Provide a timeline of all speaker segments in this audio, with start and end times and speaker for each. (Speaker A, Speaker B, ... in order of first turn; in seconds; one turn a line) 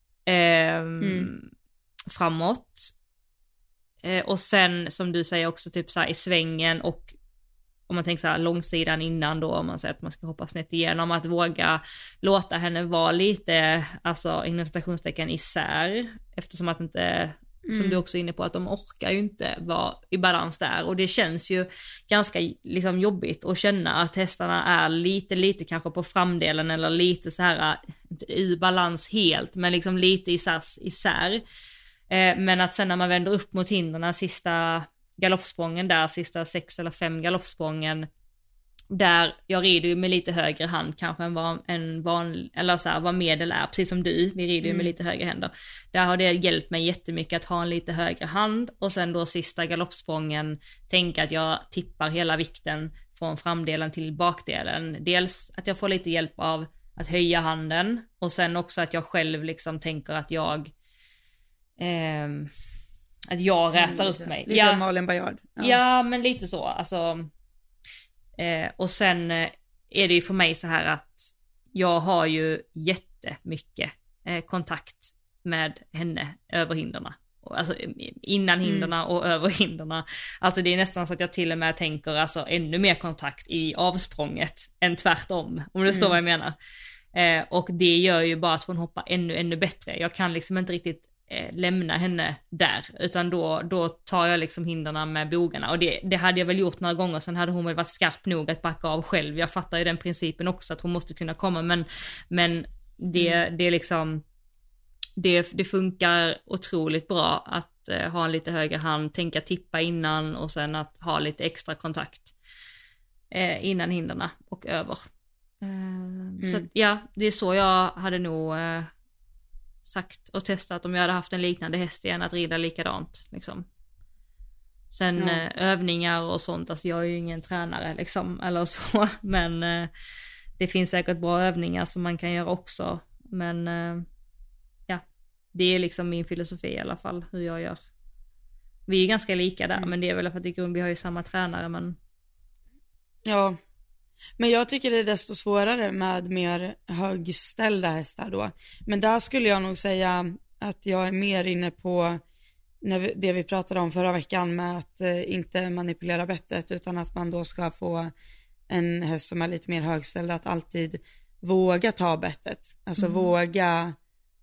Speaker A: 0.3-1.5
Speaker B: 1.0-1.3
Speaker A: 2.1-2.9
Speaker A: 4.0-7.1
Speaker A: 7.9-31.4
Speaker B: 17.6-18.0
Speaker A: 32.1-38.1
Speaker A: 38.9-60.7
Speaker B: 44.6-44.9
Speaker A: 61.8-62.5
Speaker A: 63.3-64.8
Speaker B: 63.7-65.8
Speaker A: 65.6-67.3
Speaker A: 68.4-86.5
Speaker B: 78.6-78.9
Speaker B: 85.9-86.2
Speaker A: 87.1-104.2
Speaker A: 105.2-112.3
Speaker A: 113.3-115.0
Speaker A: 115.6-118.9
Speaker B: 116.4-116.7
Speaker A: 119.8-123.7
Speaker A: 124.9-129.9
Speaker B: 125.2-125.4
Speaker A: 130.6-134.1
Speaker A: 135.5-137.8
Speaker A: 138.9-142.0
Speaker B: 143.2-143.6
Speaker B: 144.4-152.2
Speaker B: 152.8-158.1
Speaker B: 158.7-163.9
Speaker A: 163.0-163.3